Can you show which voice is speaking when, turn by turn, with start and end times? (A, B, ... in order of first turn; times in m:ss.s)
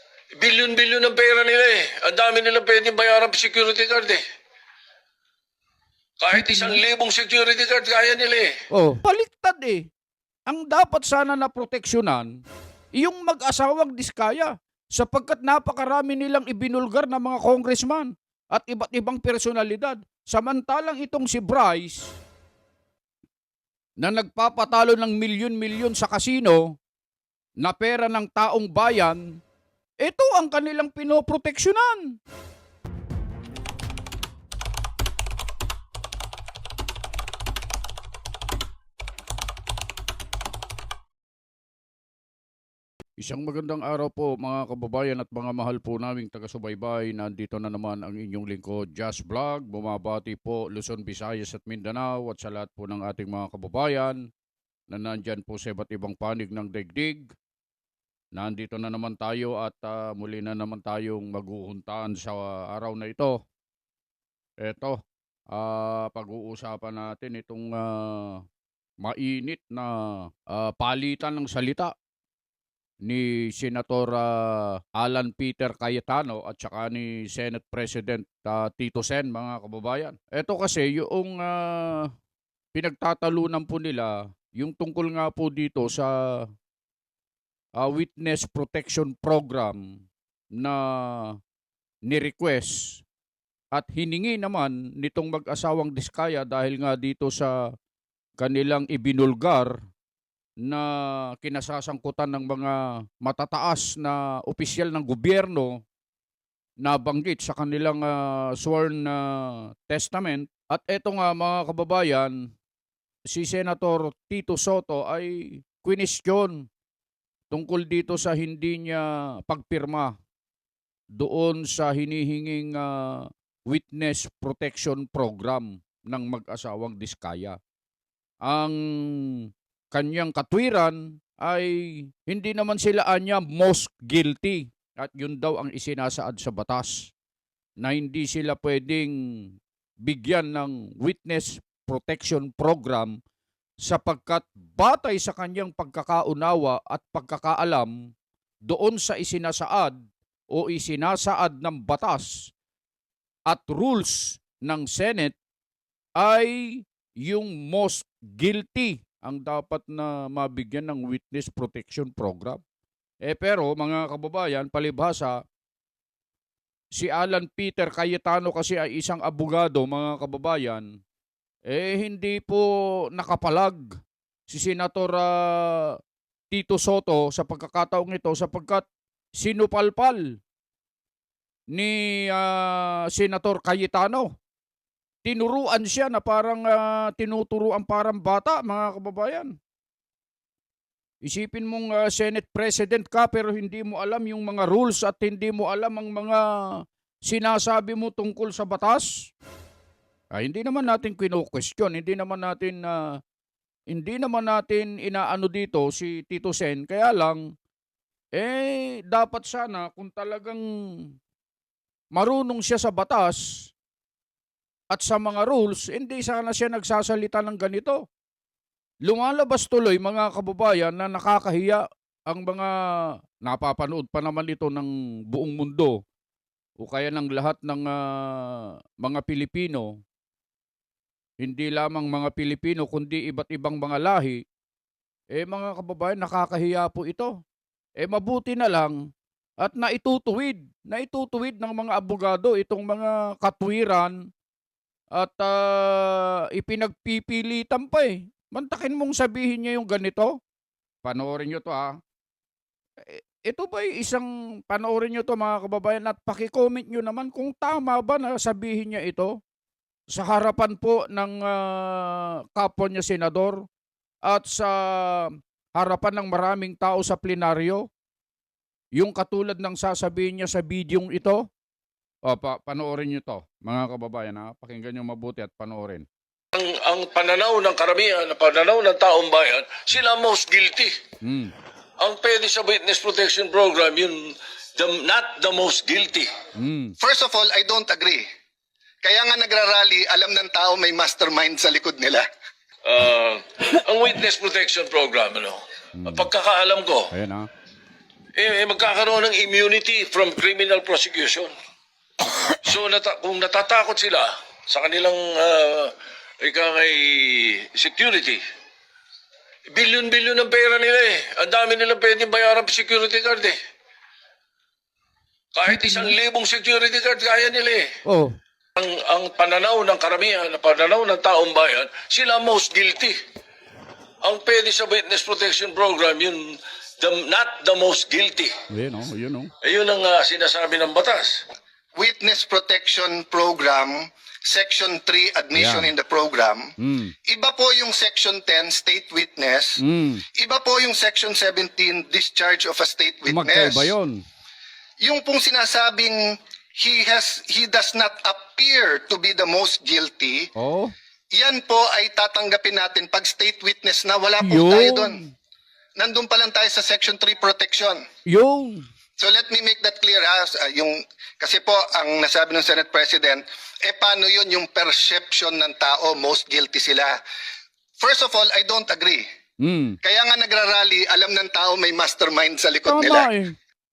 0:00.4-0:04.2 A
0:06.2-0:08.5 A
0:06.3-0:06.8 B
0:08.7-0:09.8 B
0:10.5-0:12.3 B
0:13.0-0:22.1 B
0:24.0-0:26.8 B
0:27.6-0:29.4 B
0:30.0-0:32.2 B
0:43.2-0:54.2 B
0:54.9-0:57.3 B
0:58.3-1:03.4 B
1:04.6-1:05.0 B
1:05.5-1:08.4 B
1:09.0-1:11.9 B
1:13.0-1:22.1 B
1:22.7-1:26.5 B
1:27.8-1:30.0 B
1:30.6-1:31.4 B
1:32.1-1:33.0 B
1:33.7-1:37.6 B
1:38.4-1:39.8 B
1:40.6-1:45.8 B
1:46.8-1:52.5 B
1:53.3-1:56.6 B
1:57.5-2:00.2 B
2:01.2-2:07.6 B
2:08.4-2:17.1 B
2:17.8-2:19.1 B
2:20.0-2:23.2 B
2:23.8-2:27.9 B
2:28.7-2:30.0 B
2:30.5-2:32.5 B
2:33.5-2:35.4 B
2:36.2-2:42.6 B
2:43.2-2:45.4 B
2:47.0-2:50.8 B
2:51.7-2:53.9 B
2:54.5-2:56.0 B
2:56.5-2:58.9 B
2:59.4-3:00.4 B
3:01.7-3:04.3 B
3:05.2-3:09.5 B
3:11.2-3:19.3 B
3:20.3-3:23.2 B
3:23.9-3:27.4 B
3:28.4-3:31.1 B
3:32.1-3:33.4 B
3:34.9-3:38.0 B
3:39.1-3:42.8 B
3:43.4-3:46.0 B
3:46.8-3:49.9 B
3:51.4-3:54.4 B
3:55.4-3:57.3 B
3:58.0-3:59.0 B
3:59.6-4:04.2 B
4:05.2-4:10.4 B
4:11.0-4:12.0 B
4:13.0-4:19.4 B
4:20.1-4:23.6 B
4:24.3-4:27.9 B
4:29.0-4:31.4 B
4:32.3-4:36.0 B
4:36.5-4:40.9 A
4:41.2-4:41.5 B
4:42.0-4:46.3 A
4:46.6-4:47.0 B
4:47.0-4:48.3 C
4:49.0-4:52.2 C
4:52.9-4:57.1 A
4:56.0-4:56.3 B
4:57.1-4:57.5 B
4:58.4-5:01.5 A
5:02.5-5:08.4 A
5:09.7-5:13.6 A
5:15.6-5:17.9 A
5:15.7-5:16.1 B
5:18.0-5:18.3 B
5:18.8-5:23.2 A
5:24.2-5:28.5 A
5:28.7-5:29.5 B
5:29.6-5:31.4 A
5:32.0-5:36.7 C
5:35.6-5:35.9 B
5:36.8-5:37.2 B
5:37.2-5:39.8 C
5:39.8-5:40.2 B
5:40.3-5:43.9 C
5:43.3-5:44.2 B
5:45.0-5:50.5 C
5:50.6-5:50.9 B
5:51.3-5:55.2 C
5:54.4-5:55.3 B
5:56.0-5:58.0 C
5:58.3-5:58.8 B
5:59.2-6:07.1 C
6:08.0-6:09.2 C
6:09.6-6:10.0 B
6:10.0-6:13.3 C
6:12.9-6:13.6 B